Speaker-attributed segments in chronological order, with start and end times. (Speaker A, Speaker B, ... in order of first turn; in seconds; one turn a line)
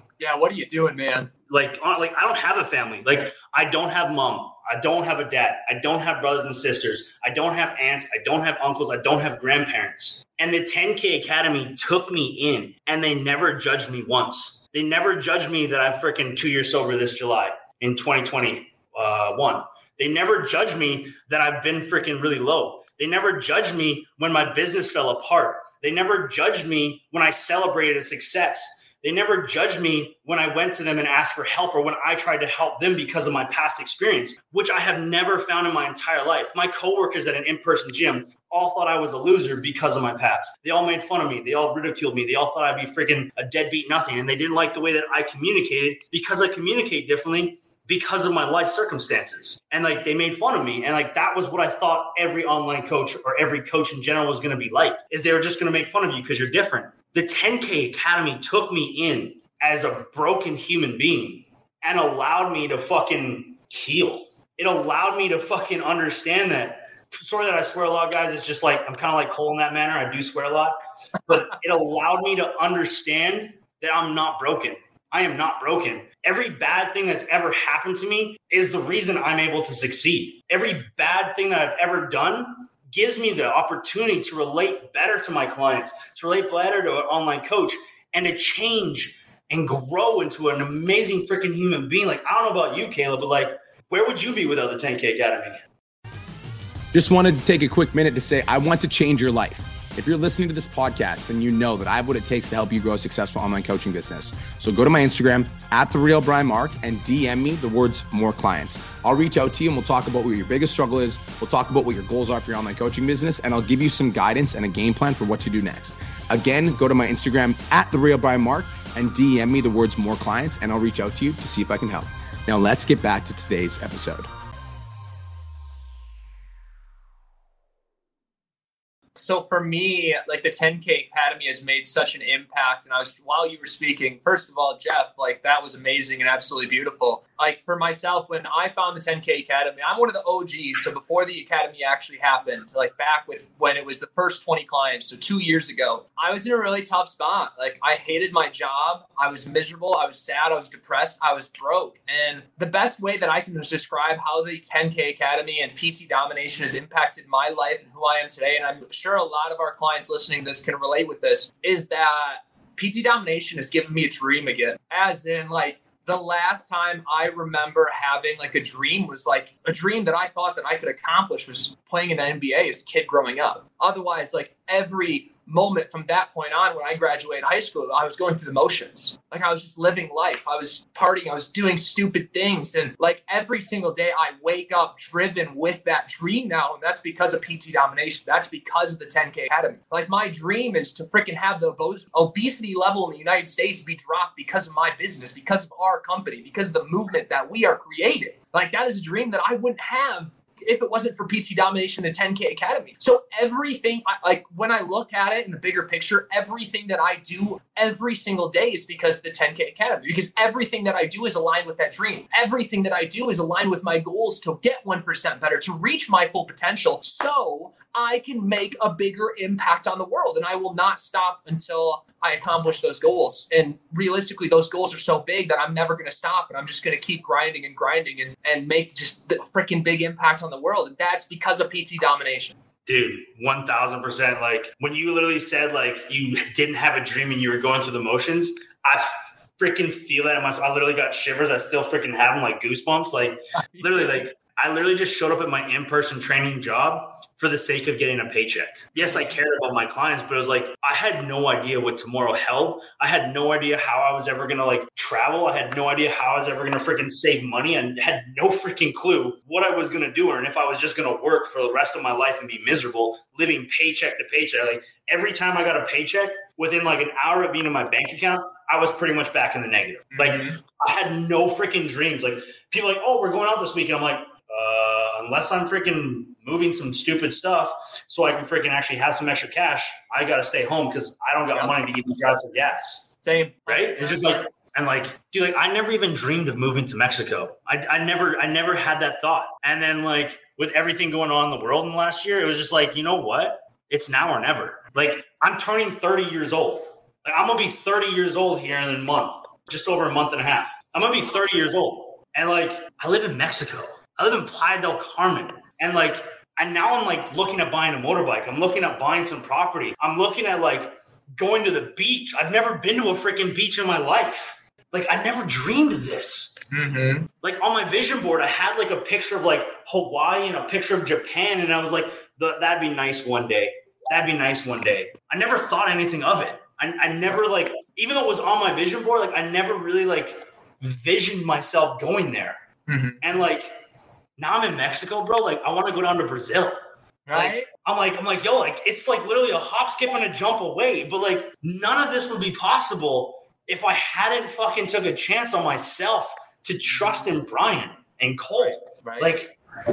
Speaker A: 0.2-1.3
Speaker B: 1.5-70.8
Speaker B: 71.3-95.6
Speaker C: 96.9-124.3
Speaker A: 129.2-232.6
Speaker B: 232.9-283.1
Speaker A: 243.8-244.1
Speaker A: 249.0-249.4
Speaker A: 270.1-270.6
Speaker A: 283.2-284.4
Speaker B: 283.7-316.6
Speaker A: 316.7-317.3
Speaker B: 317.4-332.6
Speaker A: 332.9-333.2
Speaker B: 333.2-333.7
Speaker B: 334.4-336.8
Speaker A: 337.3-337.7
Speaker B: 337.3-349.5
Speaker A: 347.0-347.3
Speaker A: 348.6-349.3